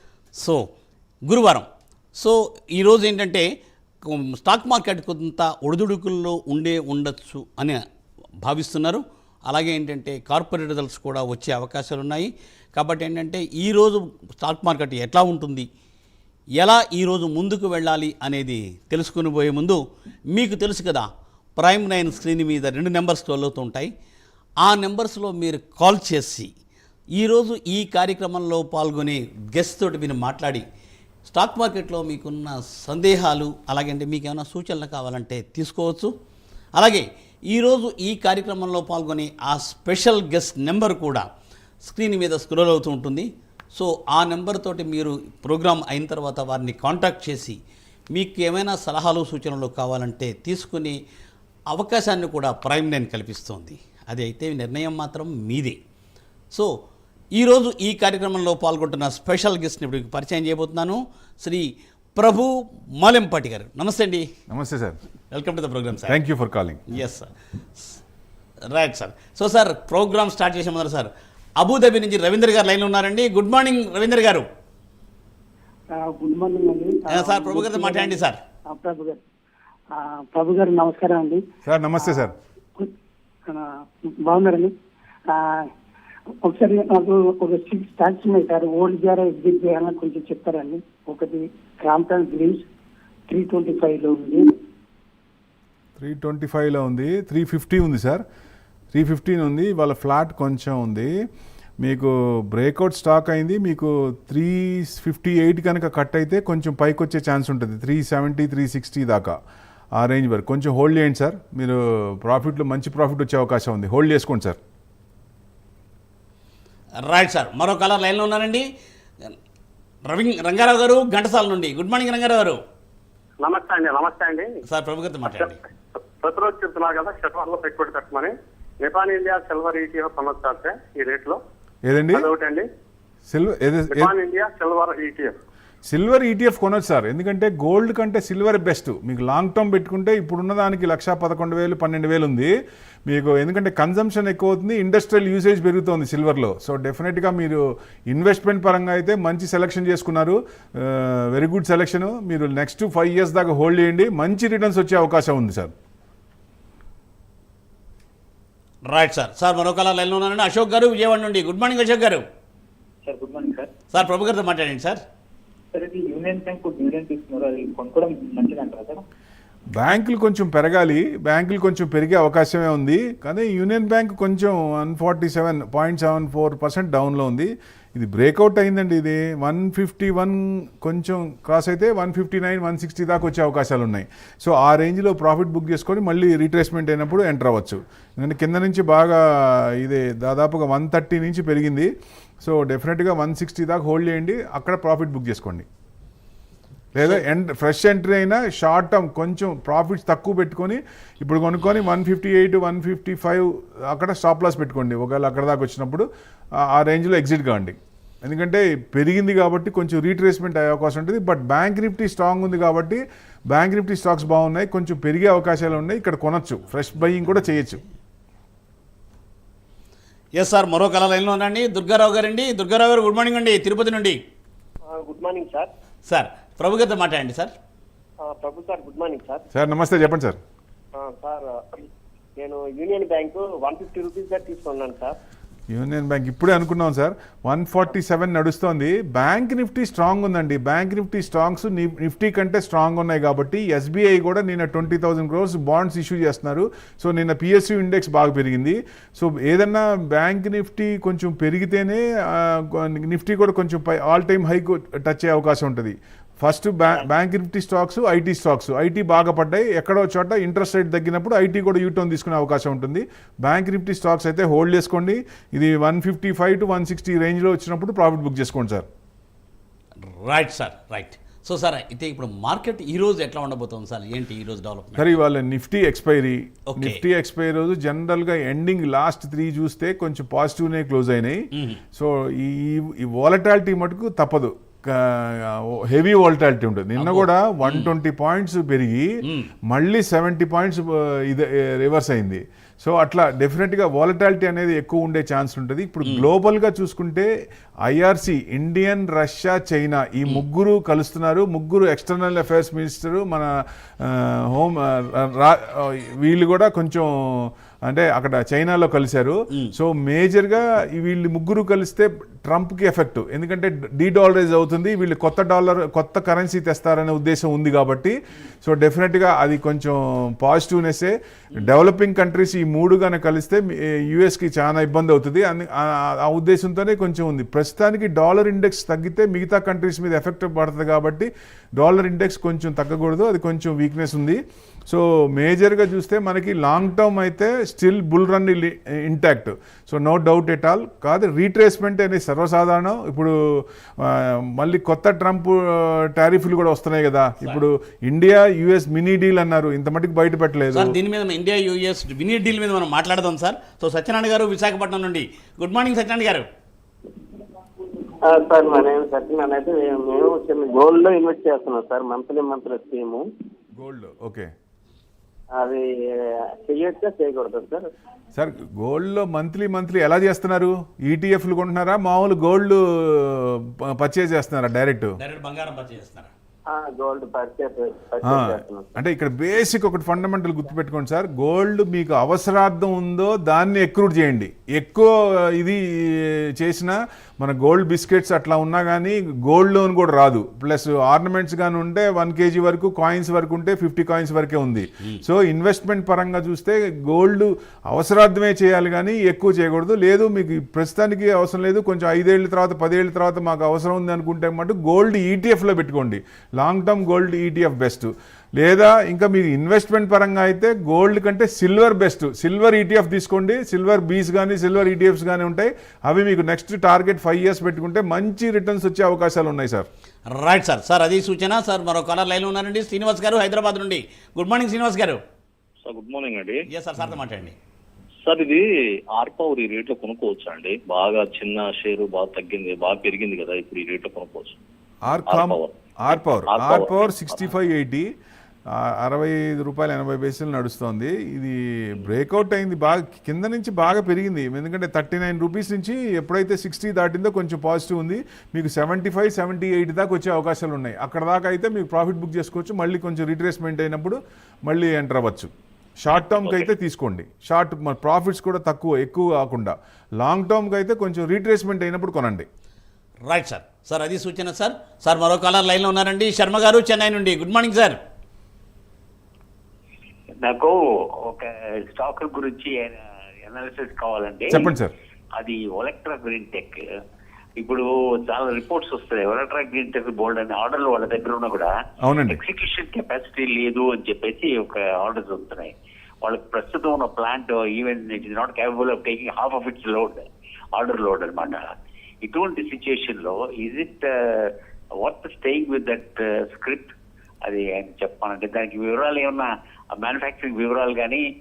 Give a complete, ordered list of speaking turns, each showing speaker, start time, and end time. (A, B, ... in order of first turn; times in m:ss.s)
0:00.4-0:00.7 A
0:01.2-0:03.5 A
0:04.0-0:07.8 A
0:08.4-0:15.7 A
0:16.6-0:19.8 A
0:20.3-0:23.9 A
0:24.6-0:26.5 A
0:27.2-0:30.6 A
0:31.2-0:36.1 A
0:36.8-0:41.3 A
0:41.8-0:47.6 A
0:48.1-0:51.0 A
0:51.7-0:55.8 A
0:57.3-1:04.3 A
1:04.5-1:05.0 B
1:05.3-1:06.2 A
1:06.1-1:06.8 B
1:06.9-1:08.0 A
1:08.7-1:14.5 A
1:16.0-1:19.2 C
1:17.1-1:18.4 A
1:20.0-1:21.4 C
1:21.7-1:22.3 B
1:22.0-1:22.9 C
1:24.2-1:24.7 C
1:25.3-1:25.7 C
1:26.4-1:32.7 C
1:33.3-1:34.4 C
1:36.0-1:38.2 B
1:38.9-1:41.1 B
1:41.8-1:49.4 B
1:50.0-1:54.6 B
1:57.0-1:58.7 A
2:00.1-2:02.6 A
2:03.4-2:04.6 D
2:04.6-2:05.6 A
2:05.3-2:11.4 D
2:11.8-2:12.3 B
2:12.1-2:12.7 D
2:13.3-2:14.1 B
2:13.9-2:15.3 D
2:15.9-2:22.5 B
2:23.1-2:35.7 B
2:38.9-2:42.2 A
2:43.0-2:43.7 E
2:43.9-2:45.0 A
2:45.7-2:49.0 E
2:49.7-3:15.7 B
3:16.9-3:26.1 B
3:26.6-3:37.8 B
3:36.9-3:37.6 A
3:40.4-3:44.2 A
3:44.9-3:45.7 D
3:46.1-3:47.5 A
3:48.2-3:49.4 D
3:49.5-3:50.4 B
3:51.0-3:51.9 D
3:52.4-3:55.2 D
3:55.7-4:28.9 B
4:30.0-4:35.1 A
4:35.0-4:57.3 B
4:36.7-4:37.0 A
4:41.5-4:41.8 A
4:47.0-4:47.9 A
4:49.2-4:49.5 A
4:56.0-4:56.3 A
4:57.8-5:50.9 B
5:50.7-5:56.5 A
5:58.2-6:03.2 F
6:03.8-6:04.5 B
6:05.6-6:05.8 F
6:06.5-6:07.9 F
6:08.4-6:15.1 B
6:15.2-6:16.3 A
6:16.7-6:18.9 F
6:18.2-6:59.9 B
7:00.3-7:05.2 A
7:05.8-7:06.6 G
7:06.7-7:07.6 A
7:08.2-7:08.6 G
7:09.2-7:14.6 G
7:15.1-7:18.1 B
7:15.3-7:15.7 G
7:16.5-7:17.4 G
7:18.7-7:42.4 B
7:43.2-7:48.0 A
7:50.4-7:54.7 H
7:54.5-7:54.9 B
7:55.4-7:56.8 H
7:57.6-8:01.7 H
8:02.0-8:02.4 B
8:02.3-8:11.7 H
8:12.2-8:16.9 H
8:17.4-8:21.2 H